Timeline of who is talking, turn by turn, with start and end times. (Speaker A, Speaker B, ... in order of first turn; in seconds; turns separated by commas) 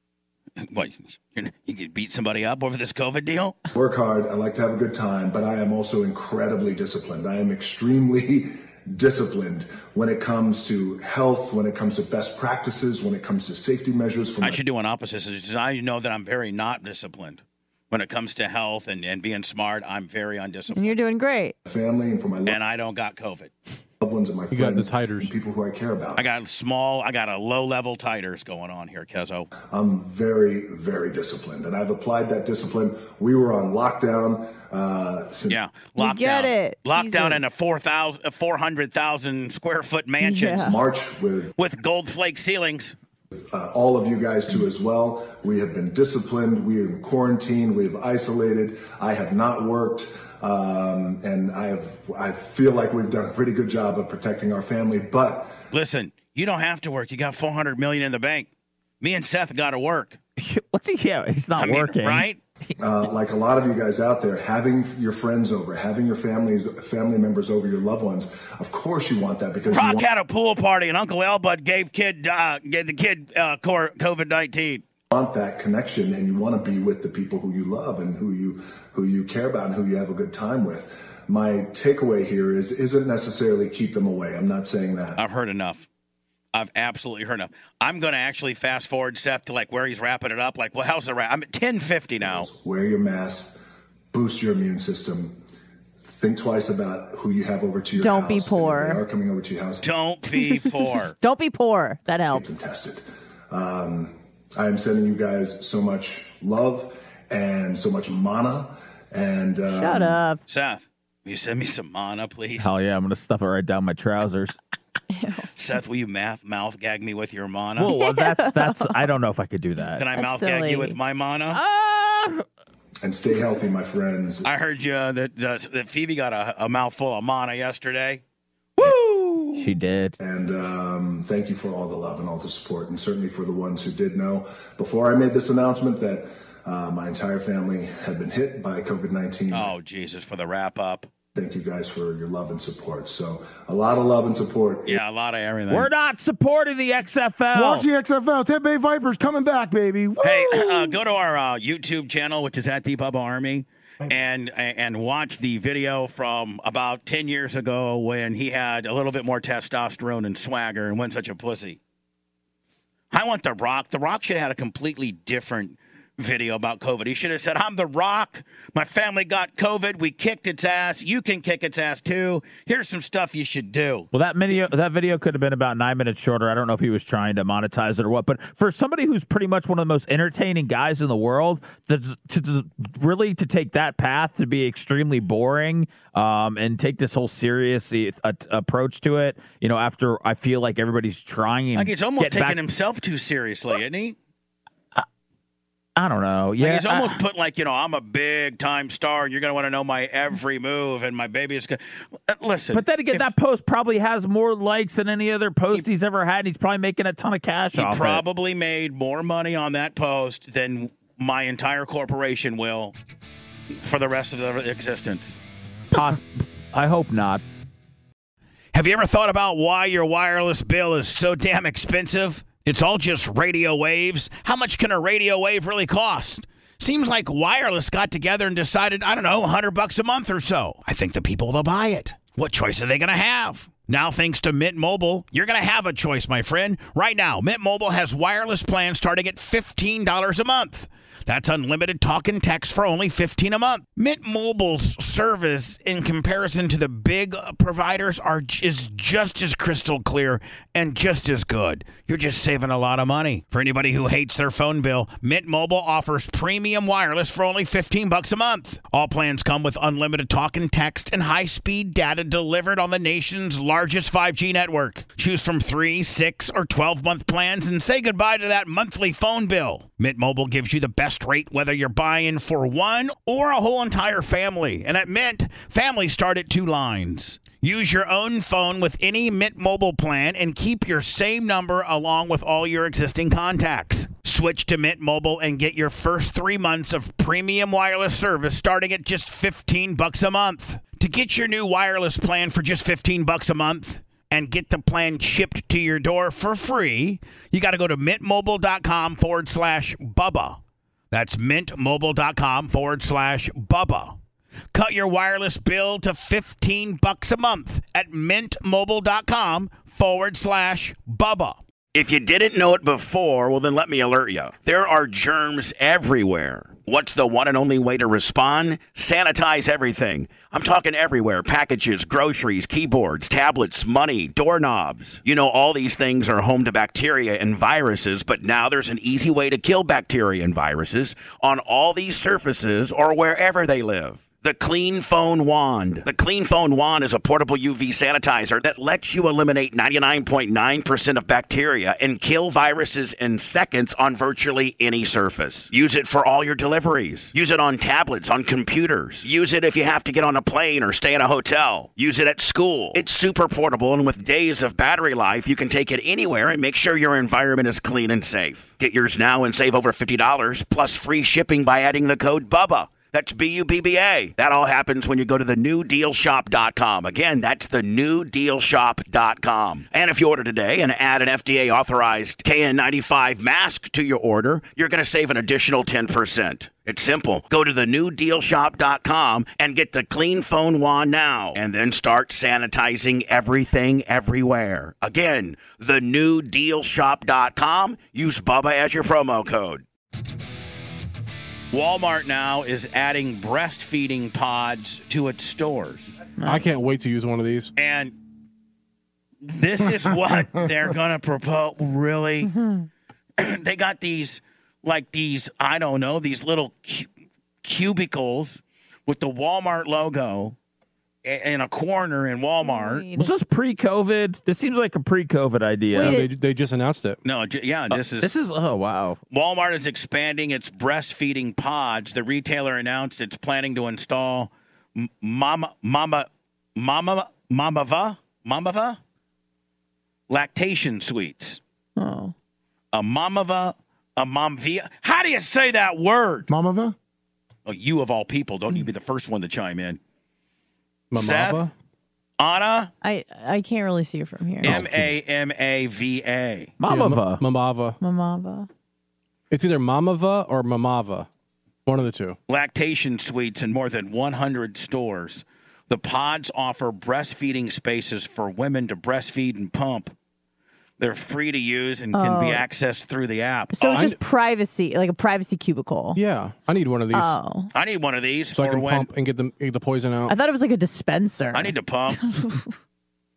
Speaker A: 0.6-3.6, Speaker B: 3.7-14.6, Speaker A: 14.4-21.0, Speaker C: 20.7-21.5, Speaker B: 21.6-22.6, Speaker A: 22.4-23.5, Speaker B: 24.0-26.3, Speaker D: 24.5-25.3, Speaker A: 26.1-29.5, Speaker B: 29.6-35.6, Speaker A: 35.5-40.7, Speaker C: 36.0-37.5, Speaker C: 40.2-40.8, Speaker B: 40.6-41.5, Speaker A: 41.6-42.9, Speaker B: 43.5-55.6, Speaker A: 55.7-58.5, Speaker A: 59.0-60.2, Speaker E: 60.4-62.3, Speaker A: 61.5-62.4, Speaker B: 62.8-70.0, Speaker A: 69.7-74.8, Speaker B: 75.1-85.2, Speaker A: 85.2-85.9, Speaker A: 86.5-92.5, Speaker B: 92.2-93.5, Speaker B: 94.1-95.4, Speaker B: 96.0-99.8, Speaker C: 98.0-99.0, Speaker A: 99.8-101.1, Speaker C: 100.3-102.6, Speaker B: 102.3-110.3, Speaker C: 109.7-110.4, Speaker A: 110.5-112.7, Speaker E: 112.6-114.6, Speaker C: 115.1-115.5, Speaker A: 115.5-117.9, Speaker E: 117.8-120.0, Speaker C: 118.0-118.9, Speaker A: 120.0-121.6, Speaker C: 120.1-121.0, Speaker E: 121.5-122.4, Speaker B: 123.0-124.5, Speaker A: 124.4-128.2, Speaker A: 128.8-129.6, Speaker E: 129.5-130.2, Speaker B: 130.2-139.7, Speaker A: 139.5-141.1, Speaker B: 141.3-145.0, Speaker A: 144.9-145.9, Speaker E: 145.7-147.9, Speaker F: 147.5-150.9, Speaker A: 150.2-161.8, Speaker A: 163.1-174.1, Speaker E: 174.1-192.6, Speaker A: 191.8-194.2, Speaker E: 196.0-197.2, Speaker A: 196.6-203.3, Speaker E: 202.7-208.2, Speaker A: 207.7-212.9, Speaker A: 213.8-215.3, Speaker E: 215.9-216.2, Speaker E: 216.7-217.4, Speaker A: 218.7-300.6, Speaker A: 301.1-304.2, Speaker A: 304.7-389.8, Speaker A: 391.7-396.3, Speaker C: 396.4-396.7, Speaker D: 396.4-397.7, Speaker A: 397.8-398.1, Speaker A: 399.4-402.5, Speaker C: 402.4-402.9, Speaker A: 403.4-407.1, Speaker A: 407.6-410.5, Speaker A: 411.2-413.1, Speaker C: 412.6-413.3, Speaker E: 413.1-416.2, Speaker D: 415.9-417.2, Speaker C: 416.0-416.3, Speaker A: 417.2-418.3, Speaker E: 417.9-419.2, Speaker A: 419.3-429.0, Speaker A: 430.3-431.6, Speaker C: 432.0-432.3, Speaker A: 432.9-436.5, Speaker F: 436.5-436.9, Speaker A: 437.6-440.0, Speaker D: 441.1-441.7, Speaker A: 441.1-441.7, Speaker A: 442.4-442.9, Speaker C: 443.0-444.8, Speaker A: 444.6-446.7, Speaker D: 444.6-445.1, Speaker E: 446.8-447.4, Speaker D: 446.9-448.0, Speaker C: 448.0-448.7, Speaker D: 449.5-451.3, Speaker D: 451.9-452.4, Speaker A: 452.5-460.1, Speaker A: 461.0-464.1, Speaker C: 462.1-462.6, Speaker C: 463.7-466.2, Speaker D: 463.9-464.2, Speaker D: 466.1-467.4, Speaker C: 467.1-467.7, Speaker A: 467.7-469.1, Speaker D: 468.5-470.4, Speaker C: 470.3-472.7, Speaker A: 471.5-472.2